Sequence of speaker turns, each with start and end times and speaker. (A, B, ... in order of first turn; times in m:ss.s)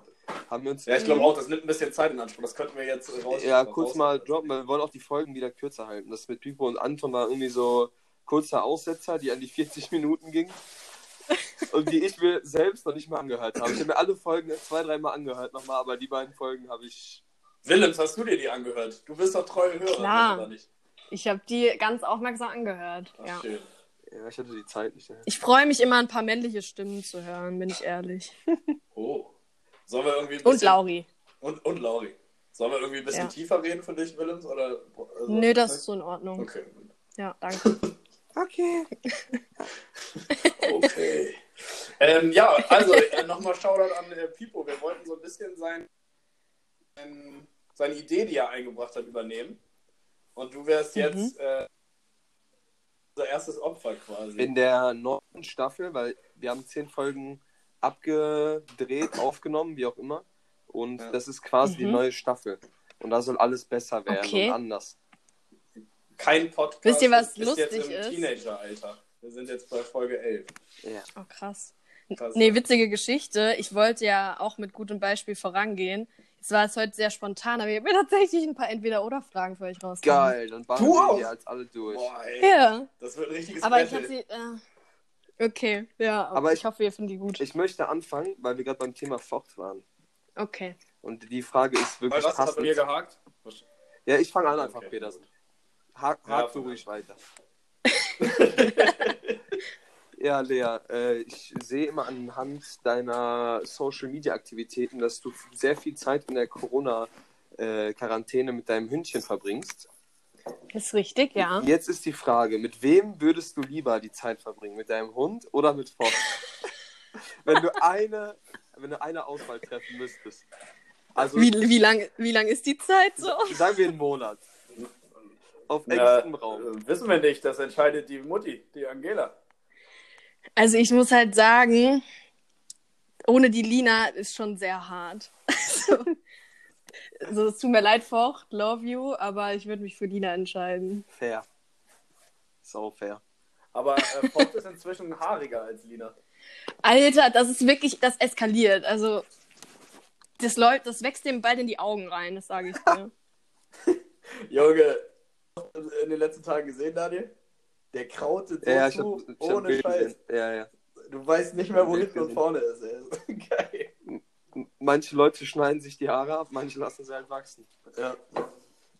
0:00.5-0:01.3 A
0:00.8-0:04.5 B
0:03.3-0:10.6 A
0:11.7-0:17.2 A
0:17.6-0:20.7 B
0:20.0-0:20.5 C
0:21.1-0:23.4 C
0:23.2-0:23.7 B
0:24.1-0:25.3 A
0:25.2-0:28.4 C
0:28.9-0:29.3 B
0:29.9-0:30.8 B
0:30.4-0:31.1 C
0:31.4-0:35.8 B
0:35.3-0:36.5 C
0:36.4-0:36.9 B
0:37.2-0:37.7 C
0:37.6-0:37.8 B
0:38.4-0:38.9 A
0:40.1-0:45.9 B
0:40.4-0:40.8 C
0:42.9-0:43.2 C
0:47.0-0:49.6 B
0:50.4-0:51.7 B
0:51.0-0:51.3 C
0:53.2-0:54.5 B
0:54.4-1:05.0 A
1:01.6-1:02.0 C
1:04.1-1:04.6 C
1:06.2-1:10.5 B
1:06.8-1:08.3 C
1:11.2-1:20.3 C
1:12.1-1:12.6 B
1:20.0-1:22.1 A
1:20.8-1:21.3 B
1:21.9-1:24.1 B
1:22.4-1:22.9 C
1:23.6-1:24.6 C
1:25.4-1:27.4 C
1:26.3-1:26.6 A
1:27.4-1:29.8 A
1:30.4-1:30.8 C
1:31.0-1:32.8 A
1:32.1-1:33.6 B
1:34.0-1:35.2 A
1:34.5-1:35.2 B
1:36.0-1:37.2 A
1:36.3-1:36.8 B
1:38.2-1:39.4 B
1:40.2-1:49.9 A
1:50.7-1:51.7 C
1:51.4-1:56.3 A
1:57.4-2:00.4 A
2:01.1-2:01.5 A
2:01.3-2:03.6 C
2:03.2-2:04.4 A
2:05.7-2:06.7 A
2:05.9-2:09.4 B
2:10.6-2:12.0 C
2:13.2-2:16.1 C
2:17.2-2:21.0 C
2:21.1-2:21.4 A
2:22.6-2:23.2 A
2:23.7-2:26.1 B
2:26.8-2:29.2 C
2:30.4-2:33.1 C
2:33.8-2:37.3 B
2:37.9-2:40.1 B
2:38.6-2:40.7 A
2:41.0-2:43.9 B
2:41.7-2:42.4 A
2:44.0-2:47.7 A
2:47.9-2:48.2 B